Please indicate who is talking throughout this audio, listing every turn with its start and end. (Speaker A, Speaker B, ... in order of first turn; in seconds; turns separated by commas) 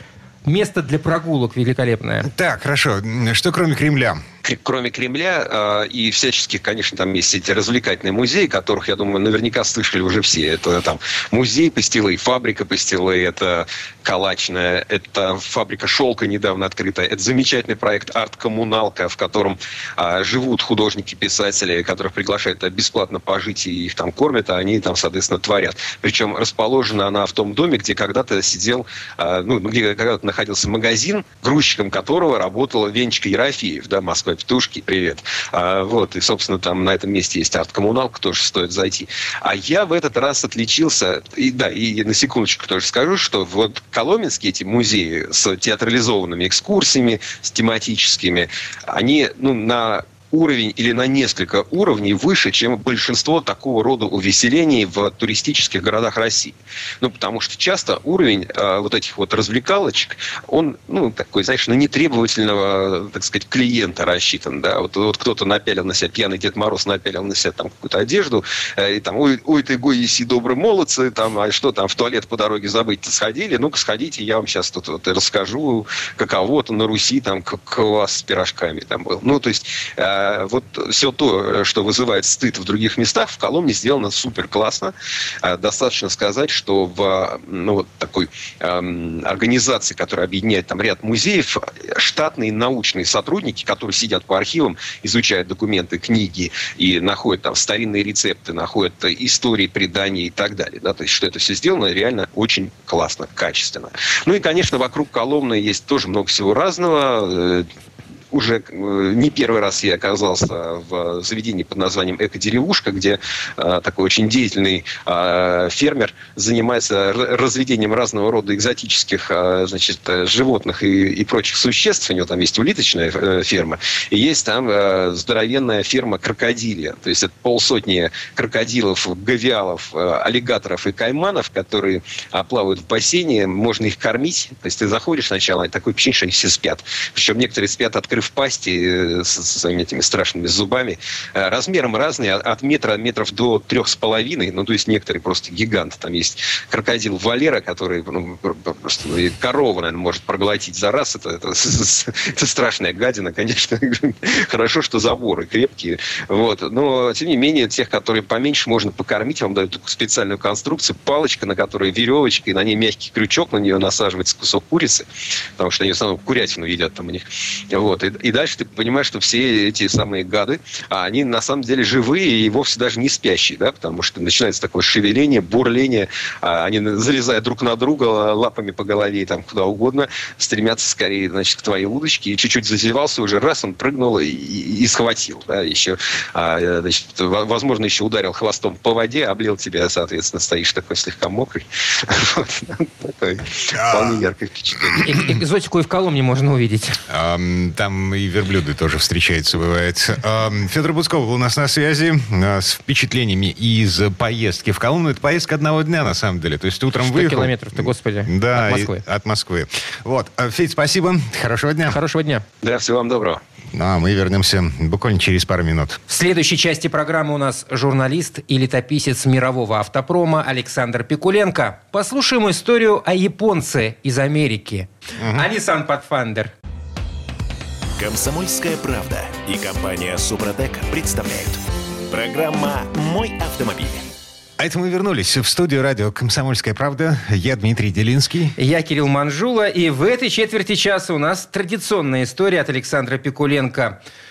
Speaker A: 0.4-2.3, Speaker B: 2.2-4.2, Speaker C: 4.4-107.7, Speaker C: 108.3-195.0, Speaker B: 193.7-194.2, Speaker B: 194.8-195.3, Speaker A: 195.0-197.0, Speaker B: 197.1-212.0, Speaker A: 207.0-209.0, Speaker A: 211.9-212.4, Speaker C: 212.6-213.4, Speaker B: 213.7-216.0, Speaker A: 216.1-226.5, Speaker B: 225.2-225.5, Speaker D: 228.0-234.1, Speaker B: 234.6-238.6, Speaker A: 238.6-244.0